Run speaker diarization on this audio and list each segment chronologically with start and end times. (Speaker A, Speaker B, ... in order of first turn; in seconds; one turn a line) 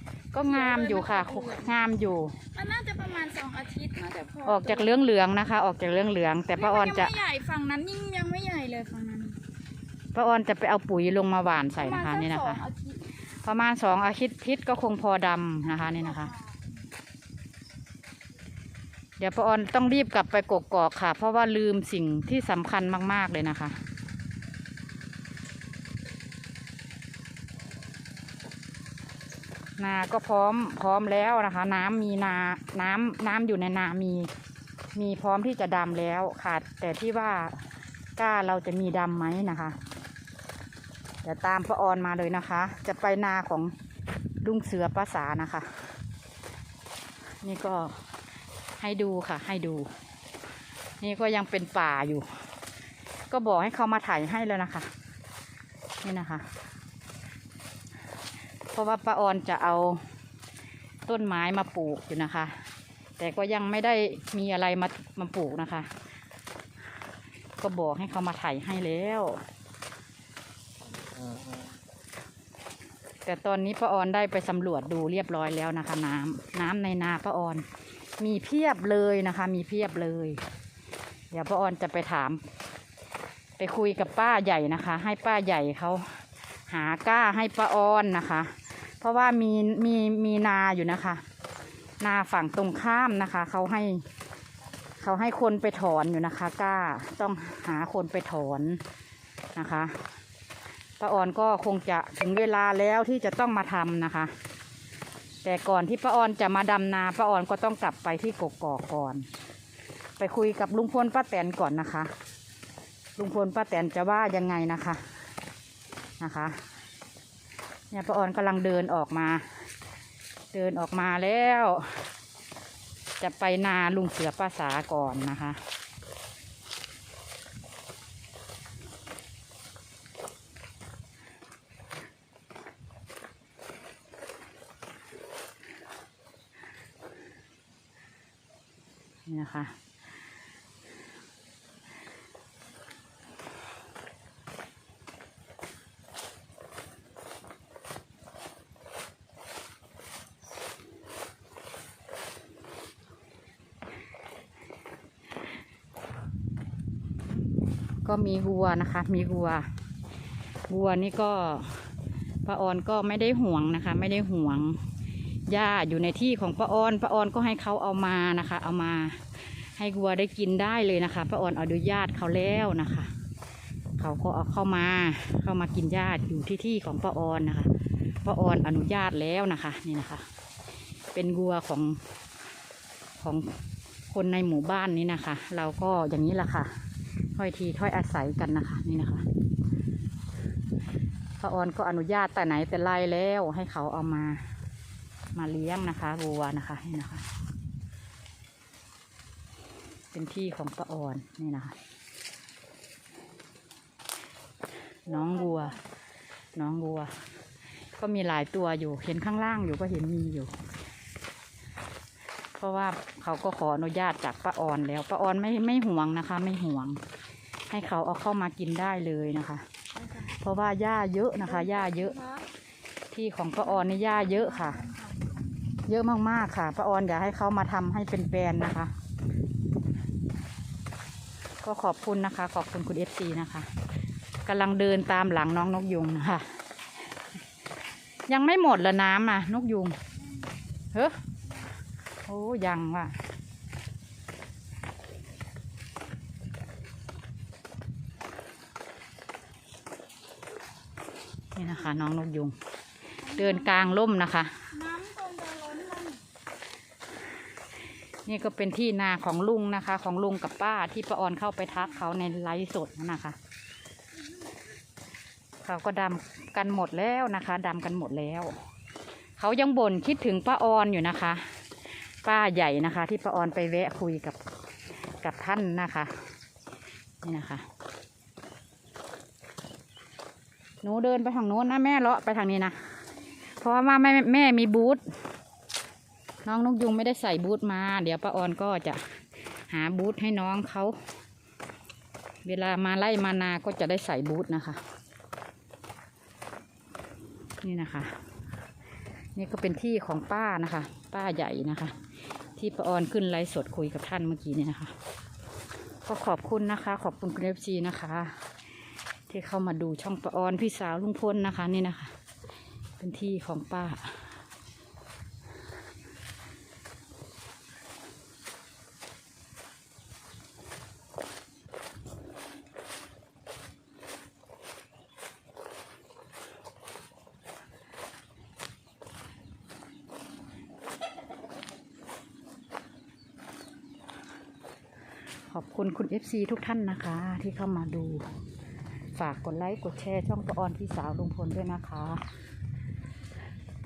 Speaker A: 0.3-2.4
Speaker B: 0.4-1.7
Speaker B: 2.5-4.9
Speaker A: 4.5-7.1
Speaker B: 6.5-9.4
Speaker A: 10.1-12.6
Speaker B: 11.8-13.1
Speaker A: 13.3-16.3
Speaker B: 16.1-16.6
Speaker A: 19.2-23.8
Speaker A: 29.8-34.3
Speaker A: 35.0-37.7
Speaker A: 38.2-39.8
Speaker A: 41.2-43.7
Speaker A: 44.4-45.8
Speaker A: 47.4-48.0
Speaker A: 48.8-49.9
Speaker A: 51.0-52.3
Speaker A: 53.3-54.9
Speaker A: 56.0-56.5
Speaker A: 58.7-60.0
Speaker A: 61.1-62.6
Speaker A: 63.2-65.9
Speaker A: 67.6-69.4
Speaker A: 73.2-77.7
Speaker A: 78.2-80.4
Speaker A: 81.3-82.4
Speaker A: 83.6-91.2
Speaker A: 92.0-94.0
Speaker A: 95.0-98.8
Speaker A: 99.5-100.0
Speaker A: 101.0-104.3
Speaker A: 105.4-109.3
Speaker A: 110.2-112.1
Speaker A: 113.2-115.0
Speaker A: 116.2-116.6
Speaker A: 117.9-119.5
Speaker A: 120.5-121.9
Speaker A: 123.2-125.6
Speaker A: 139.3-139.7
Speaker A: 158.0-159.7
Speaker A: 160.7-161.9
Speaker A: 162.4-164.8
Speaker A: 165.5-169.2
Speaker A: 169.8-173.1
Speaker A: 174.0-177.7
Speaker A: 178.2-180.2
Speaker A: 181.1-182.0
Speaker A: 183.2-183.5
Speaker A: 184.1-186.7
Speaker A: 187.3-189.2
Speaker A: 191.4-194.4
Speaker A: 195.3-197.2
Speaker A: 200.1-201.8
Speaker A: 205.1-205.8
Speaker B: 205.1-205.8
Speaker A: 206.6-207.2
Speaker A: 208.0-210.5
Speaker A: 212.6-217.0
Speaker A: 217.7-219.7
Speaker A: 220.3-222.2
Speaker B: 221.4-222.5
Speaker A: 223.1-224.8
Speaker B: 223.7-225.8
Speaker A: 225.8-228.9
Speaker A: 231.6-233.7
Speaker A: 234.5-236.5
Speaker A: 238.3-240.0
Speaker A: 242.2-243.2
Speaker A: 251.6-252.6
Speaker B: 253.2-253.9
Speaker A: 253.3-254.7
Speaker B: 254.7-256.2
Speaker A: 258.3-263.4
Speaker A: 265.6-268.6
Speaker A: 269.4-271.4
Speaker A: 272.2-274.4
Speaker A: 275.2-276.1
Speaker A: 277.2-277.6
Speaker A: 280.8-282.8
Speaker A: 283.6-285.0
Speaker A: 286.4-289.0
Speaker A: 289.7-291.0
Speaker A: 292.4-294.8
Speaker A: 297.6-298.2
Speaker A: 299.4-302.0
Speaker A: 302.6-304.9
Speaker A: 306.1-308.4
Speaker A: 309.3-312.1
Speaker A: 313.0-314.2
Speaker A: 335.5-338.3
Speaker A: 339.1-342.2